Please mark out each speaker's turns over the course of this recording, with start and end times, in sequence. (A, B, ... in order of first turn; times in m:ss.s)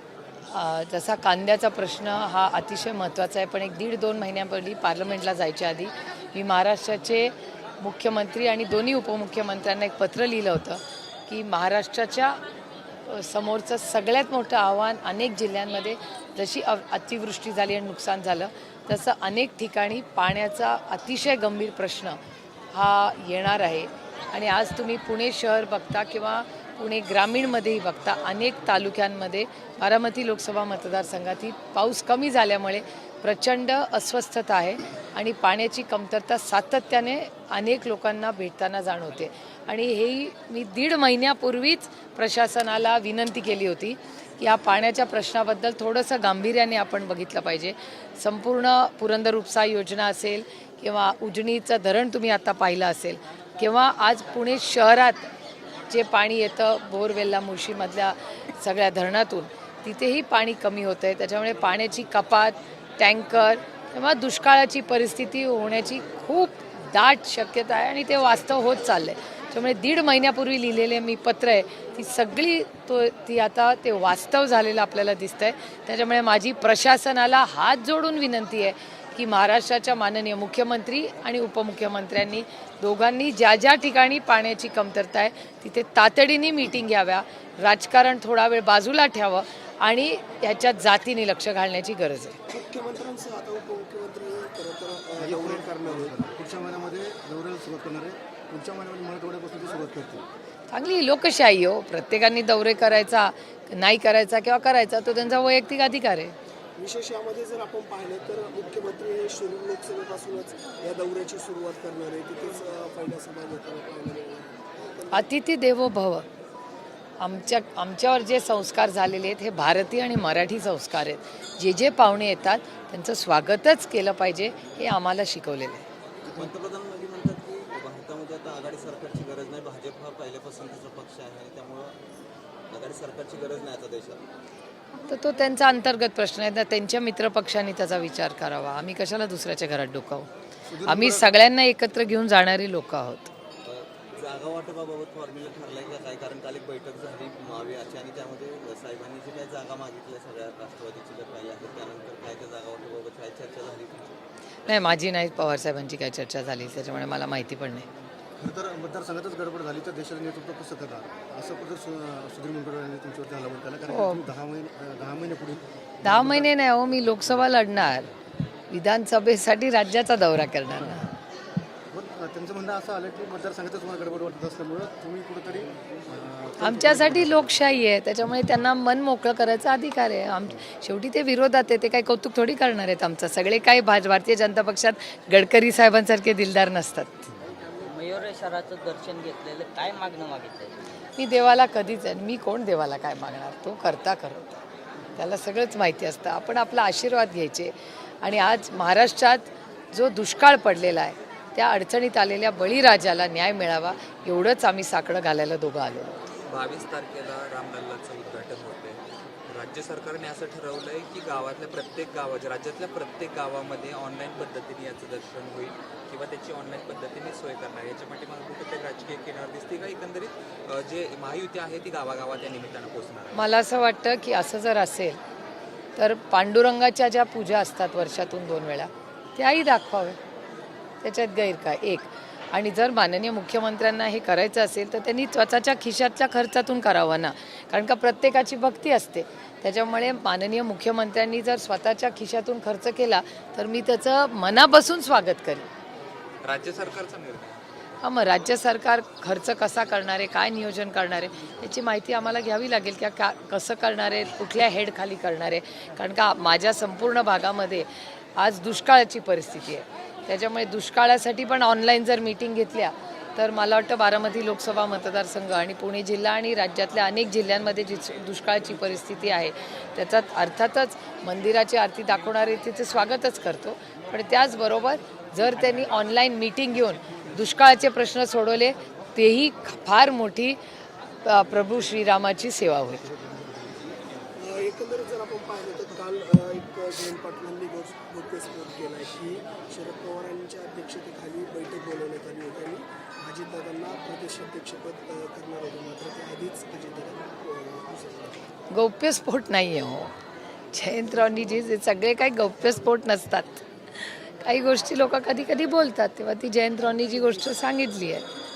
0:00.5-0:12.4 A
0:13.1-0:22.2 A
0:22.7-0:55.3 A
0:55.9-1:32.4 A
1:32.5-1:36.2 B
1:35.2-1:40.3 C
1:40.7-1:46.4 A
1:46.8-1:55.3 B
1:55.1-1:56.3 A
1:57.2-2:05.8 A
2:06.6-2:11.9 D
2:12.7-2:14.2 D
2:15.1-2:20.3 A
2:20.6-2:21.3 C
2:20.8-2:23.3 A
2:24.2-2:34.1 D
2:34.7-2:37.9 A
2:38.4-2:46.5 C
2:43.9-2:44.2 A
2:46.0-2:48.1 A
2:48.7-2:51.1 A
2:50.8-2:51.2 C
2:51.9-2:57.5 C
2:56.6-3:07.3 A
3:07.8-3:10.7 E
3:11.2-3:14.6 A
3:15.2-3:26.2 A
3:26.5-3:43.4 F
3:43.3-3:45.2 A
3:46.0-3:50.2 A
3:51.0-4:05.7 A
4:06.4-4:07.6 F
4:08.0-4:40.6 A
4:41.2-4:43.1 A
4:43.3-4:43.8 C
4:44.4-4:58.4 B
4:58.7-5:00.1 A
5:00.7-5:08.2 A
5:07.0-5:07.5 B